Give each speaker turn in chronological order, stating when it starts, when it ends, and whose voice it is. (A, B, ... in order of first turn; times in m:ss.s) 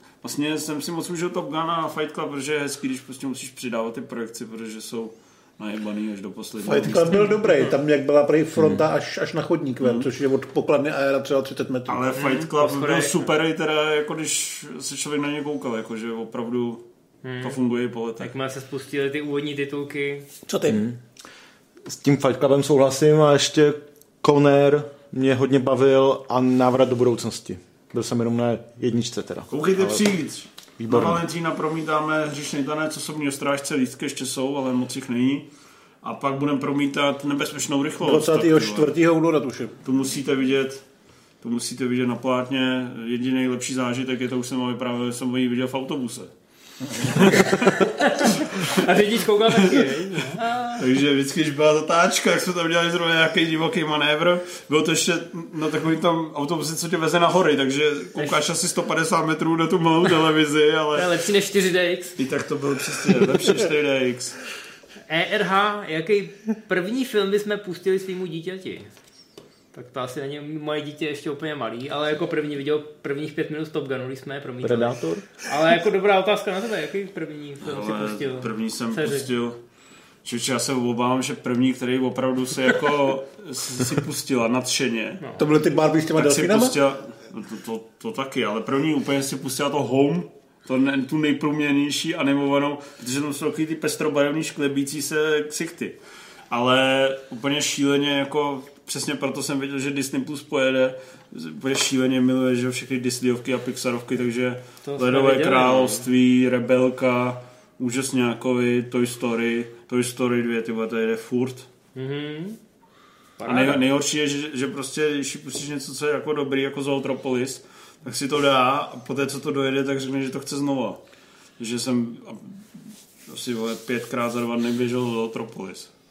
0:00.2-0:07.3 A
0:06.6-0:12.0 B
0:07.1-0:07.4 C
0:08.6-0:08.8 D
0:09.8-0:10.1 A
0:11.9-0:16.8 A
0:12.1-0:13.3 C
0:17.2-0:17.6 C
0:17.4-0:18.3 A
0:18.2-0:20.3 C
0:20.5-0:20.8 B
0:20.7-0:21.0 D
0:21.9-0:30.0 D
0:29.5-0:35.5 A
0:30.8-0:31.2 D
0:36.0-0:38.9 A
0:38.0-0:39.7 B
0:39.8-0:40.8 A
0:41.4-0:46.3 A
0:46.9-0:47.5 B
0:47.0-0:48.9 A
0:47.8-0:50.8 C
0:49.5-0:49.9 A
0:50.7-1:01.1 A
1:01.0-1:02.2 C
1:02.2-1:04.4 A
1:05.1-1:08.9 C
1:09.7-1:19.3 C
1:14.6-1:15.2 D
1:17.6-1:19.6 A
1:20.2-1:25.2 A
1:25.4-1:26.8 B
1:26.1-1:36.0 A
1:36.5-1:51.7 A
1:44.8-1:46.0 C
1:52.0-1:52.6 C
1:53.4-1:53.8 C
1:53.5-2:01.0 A
2:01.6-2:02.6 A
2:03.3-2:05.9 A